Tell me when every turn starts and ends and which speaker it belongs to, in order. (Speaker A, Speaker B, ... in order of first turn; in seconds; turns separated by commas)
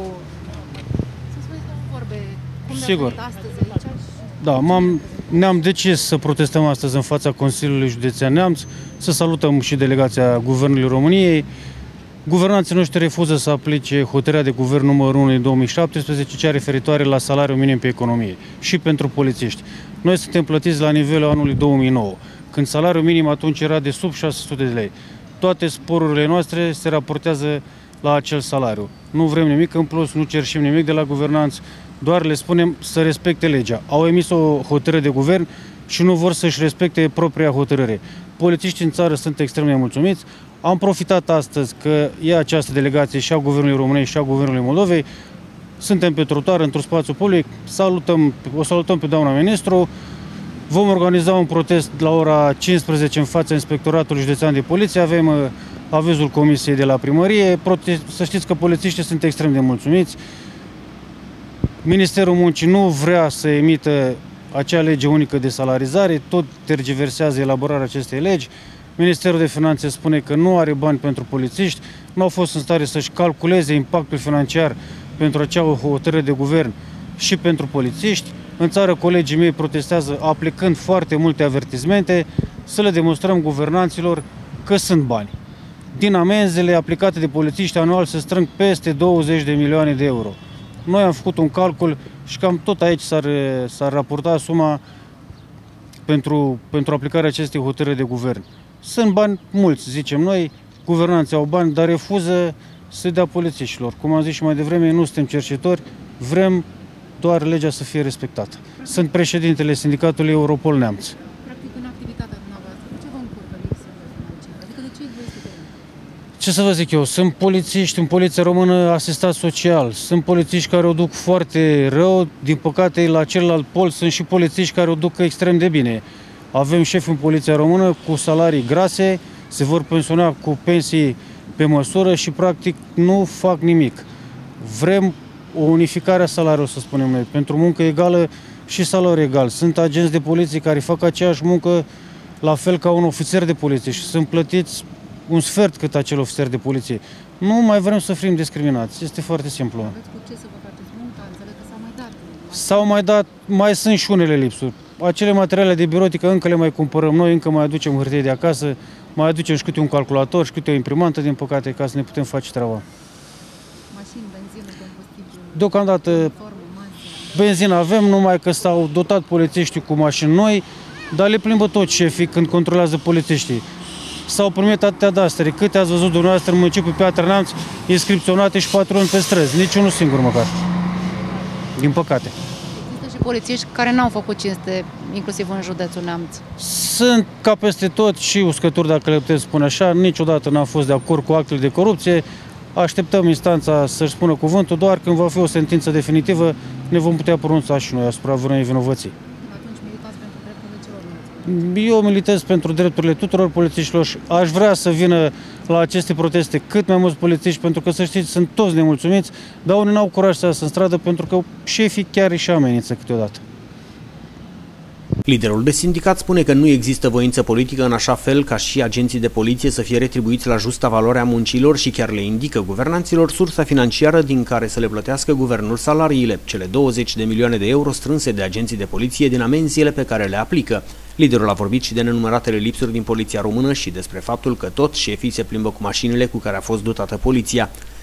Speaker A: 1.3-5.5, Speaker B: 2.7-3.2, Speaker B: 4.4-11.5, Speaker B: 12.3-45.1, Speaker B: 45.8-49.9, Speaker B: 50.7-60.2, Speaker B: 61.8-85.3, Speaker B: 86.0-94.8, Speaker B: 96.1-106.7, Speaker B: 107.2-111.2, Speaker A: 111.4-115.7, Speaker B: 116.4-134.1, Speaker B: 134.6-141.9, Speaker B: 142.4-149.9, Speaker A: 149.8-152.9, Speaker B: 152.5-162.8, Speaker A: 163.9-167.3, Speaker B: 165.6-166.3, Speaker B: 167.3-173.6, Speaker B: 174.3-180.5, Speaker B: 181.8-182.3, Speaker A: 182.7-186.4, Speaker B: 186.6-192.2, Speaker B: 192.8-199.1, Speaker A: 199.4-201.6, Speaker B: 201.5-213.4, Speaker C: 215.3-237.7